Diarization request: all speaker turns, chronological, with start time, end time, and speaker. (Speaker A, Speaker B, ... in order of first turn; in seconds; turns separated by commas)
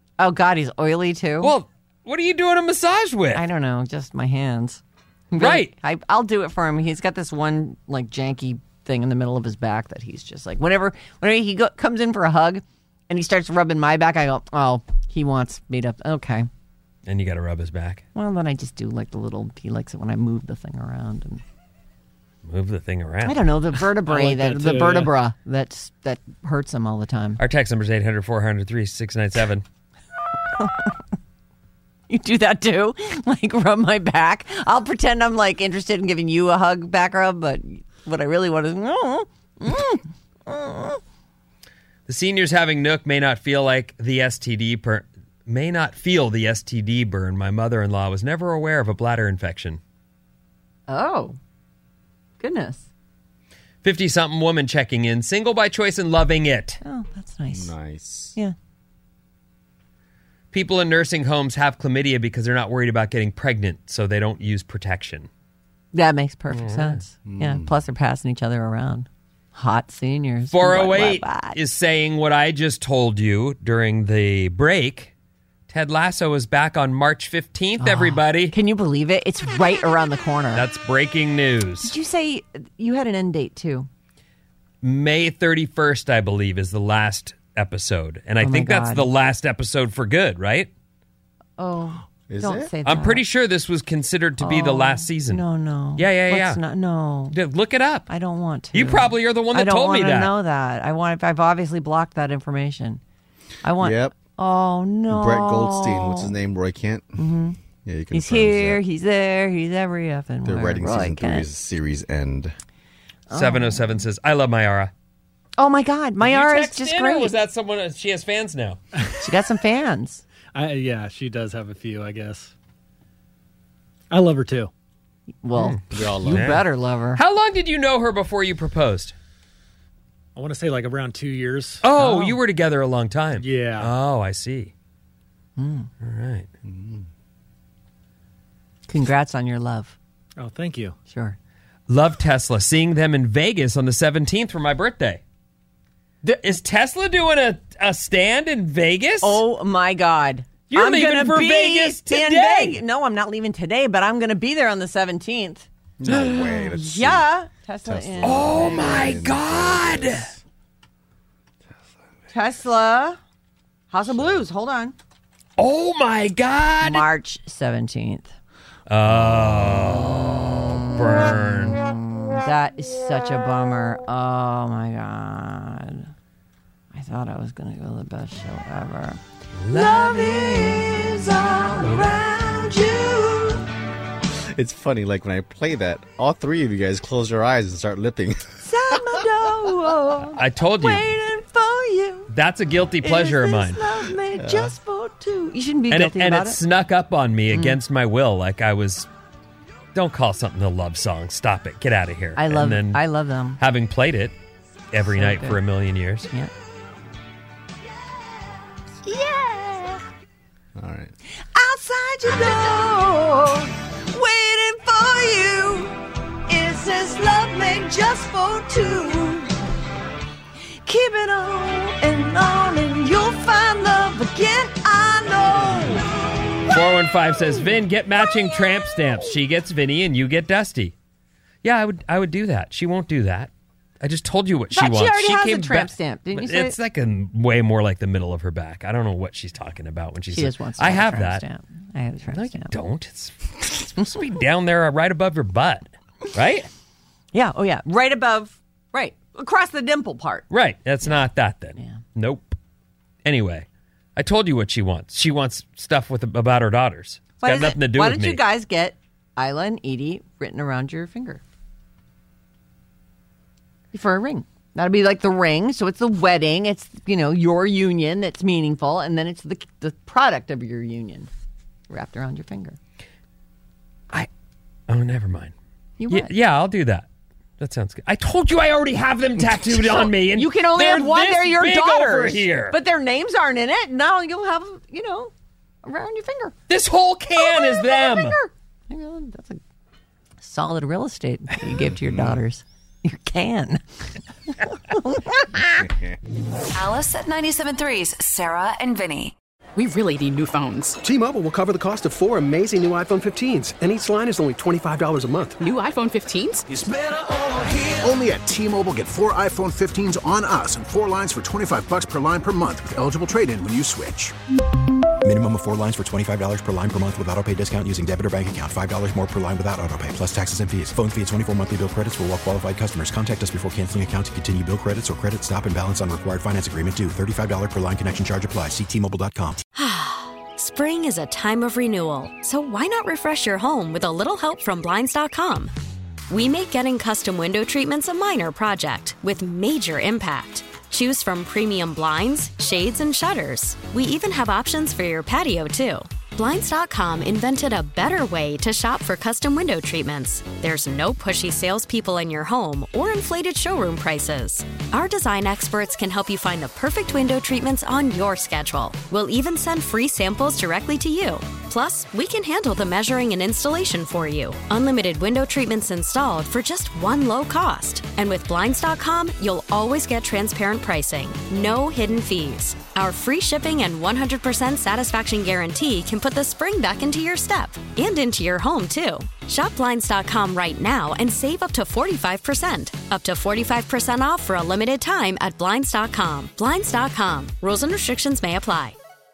Speaker A: 0.2-1.5, Speaker B: 1.4-3.5, Speaker A: 3.3-16.5, Speaker B: 5.4-5.7, Speaker B: 17.1-18.0, Speaker A: 18.1-21.4, Speaker B: 22.4-23.5, Speaker A: 23.2-27.4, Speaker C: 24.1-25.1, Speaker B: 27.4-29.6, Speaker A: 30.6-30.9, Speaker A: 32.1-41.0, Speaker B: 42.1-49.8, Speaker A: 50.9-51.4, Speaker A: 52.4-52.9, Speaker B: 53.8-56.8, Speaker A: 56.8-57.7, Speaker D: 57.5-58.4, Speaker B: 60.5-65.3, Speaker A: 65.9-71.6, Speaker B: 66.5-67.0, Speaker D: 67.2-67.7, Speaker B: 70.5-75.1, Speaker B: 75.7-78.5, Speaker A: 77.8-80.7, Speaker B: 80.5-81.9, Speaker A: 81.8-83.9, Speaker B: 84.8-90.7, Speaker A: 88.4-89.1, Speaker A: 91.6-93.2, Speaker D: 92.3-92.7, Speaker B: 92.8-95.4, Speaker A: 94.4-97.3, Speaker B: 96.0-96.6, Speaker B: 97.3-98.1, Speaker A: 98.1-103.0, Speaker B: 98.7-100.3, Speaker A: 103.6-106.3, Speaker D: 103.8-104.1, Speaker D: 105.1-107.2, Speaker A: 107.2-107.6, Speaker D: 107.8-108.8, Speaker A: 108.1-111.5, Speaker D: 110.5-112.5, Speaker A: 113.3-114.0, Speaker B: 113.3-114.9, Speaker A: 115.6-117.3, Speaker B: 116.2-118.8, Speaker A: 119.2-120.2, Speaker C: 120.5-122.5, Speaker C: 124.1-124.7, Speaker A: 125.4-127.2, Speaker B: 125.6-126.7, Speaker D: 125.9-126.6, Speaker B: 127.2-129.2, Speaker C: 130.4-131.8, Speaker B: 131.8-134.7, Speaker A: 132.0-132.4, Speaker C: 133.4-133.9, Speaker A: 135.6-135.9, Speaker B: 136.0-136.5, Speaker D: 136.7-137.1, Speaker A: 138.9-140.0, Speaker C: 140.4-141.0, Speaker A: 141.1-141.4, Speaker B: 141.9-145.2, Speaker B: 146.4-149.4, Speaker A: 149.2-155.7, Speaker B: 150.7-152.8, Speaker D: 156.0-157.3, Speaker B: 156.1-156.7, Speaker A: 156.7-159.1, Speaker D: 157.8-160.4, Speaker B: 158.2-160.3, Speaker A: 162.3-163.2, Speaker A: 163.9-165.0, Speaker B: 165.6-167.1, Speaker A: 166.8-168.3, Speaker B: 168.9-171.8, Speaker D: 169.1-169.7, Speaker A: 171.3-176.1, Speaker A: 176.9-183.7, Speaker B: 179.6-180.9, Speaker D: 184.5-188.5, Speaker A: 188.6-192.3, Speaker B: 190.3-191.1, Speaker B: 192.3-193.9, Speaker A: 193.0-196.6, Speaker D: 194.4-194.8, Speaker B: 195.9-199.1, Speaker A: 197.5-197.8, Speaker B: 199.9-203.0, Speaker A: 202.4-203.6, Speaker B: 203.6-204.3, Speaker B: 204.9-206.3, Speaker A: 205.1-205.6, Speaker A: 209.1-210.0, Speaker D: 210.8-211.1, Speaker A: 211.6-219.5, Speaker A: 220.8-226.1, Speaker B: 226.7-230.9, Speaker B: 231.6-241.4, Speaker A: 234.7-236.8, Speaker A: 240.3-242.7, Speaker B: 242.3-246.7, Speaker A: 247.3-250.5, Speaker B: 250.5-252.6, Speaker B: 253.2-258.4, Speaker A: 257.4-261.4, Speaker A: 263.9-271.3, Speaker A: 271.9-272.8, Speaker B: 274.9-275.5, Speaker A: 276.0-276.3, Speaker B: 276.1-277.1, Speaker B: 277.6-282.8, Speaker A: 279.7-285.3, Speaker A: 285.8-286.6, Speaker B: 286.7-288.4, Speaker A: 287.4-289.6, Speaker A: 290.4-293.8, Speaker D: 292.1-292.4, Speaker A: 294.5-295.9, Speaker D: 295.8-296.2, Speaker E: 296.7-299.3, Speaker F: 299.8-306.7, Speaker G: 306.8-307.1, Speaker G: 307.8-314.3, Speaker H: 315.2-329.6, Speaker I: 329.8-335.7, Speaker I: 336.3-389.0